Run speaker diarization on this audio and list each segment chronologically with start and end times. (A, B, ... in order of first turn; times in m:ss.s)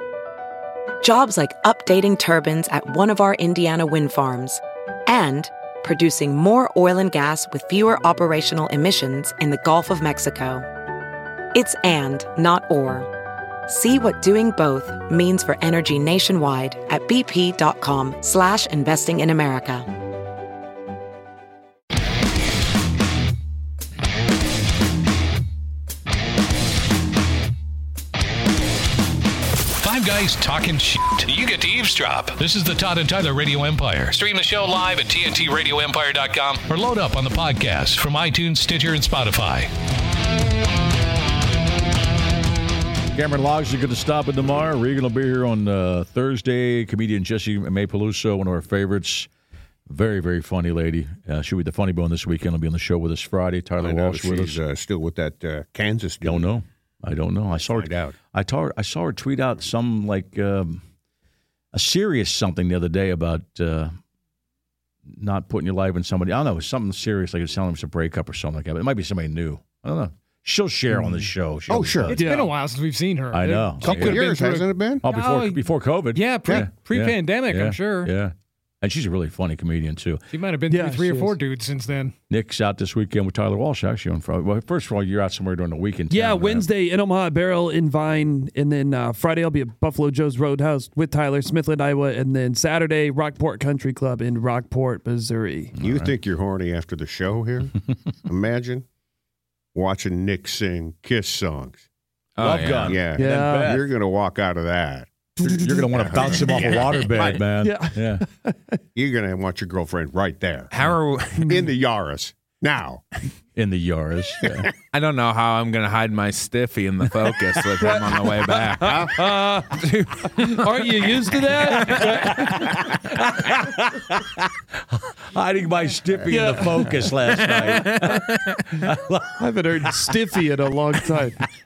0:01.0-0:10.7 A
0:11.5-0:13.1 A
0:13.7-0:19.9 A
0:29.8-0:39.7 B
0:43.1-0:49.3 C
0:49.9-0:54.6 C
0:53.8-0:56.5 D
0:56.2-1:00.8 C
0:57.7-0:58.2 D
1:01.7-1:04.0 C
1:05.1-1:12.2 C
1:11.7-1:12.2 D
1:12.1-1:15.6 E
1:12.1-1:12.5 F
1:13.3-1:14.2 C
1:13.8-1:15.0 D
1:15.0-1:20.2 C
1:16.1-1:18.1 E
1:20.3-1:22.1 E
1:20.7-1:21.4 F
1:22.3-1:26.7 C
1:26.1-1:35.7 F
1:35.8-1:36.1 C
1:35.8-1:38.8 D
1:39.8-1:41.8 D
1:42.4-1:43.0 G
1:42.4-1:43.9 C
1:42.9-1:47.4 D
1:43.2-1:43.8 F
1:45.4-1:46.5 F
1:45.4-1:48.2 C
1:47.5-1:48.6 F
1:49.0-1:50.7 D
1:50.7-1:51.6 G
1:51.4-1:53.0 D
1:53.6-1:54.7 C
1:54.9-1:59.2 G
1:57.8-2:02.6 F
1:58.8-1:59.1 D
1:59.7-2:00.8 G
2:01.8-2:02.4 G
2:01.8-2:10.2 C
2:06.3-2:07.1 F
2:07.4-2:08.6 G
2:09.4-2:11.4 F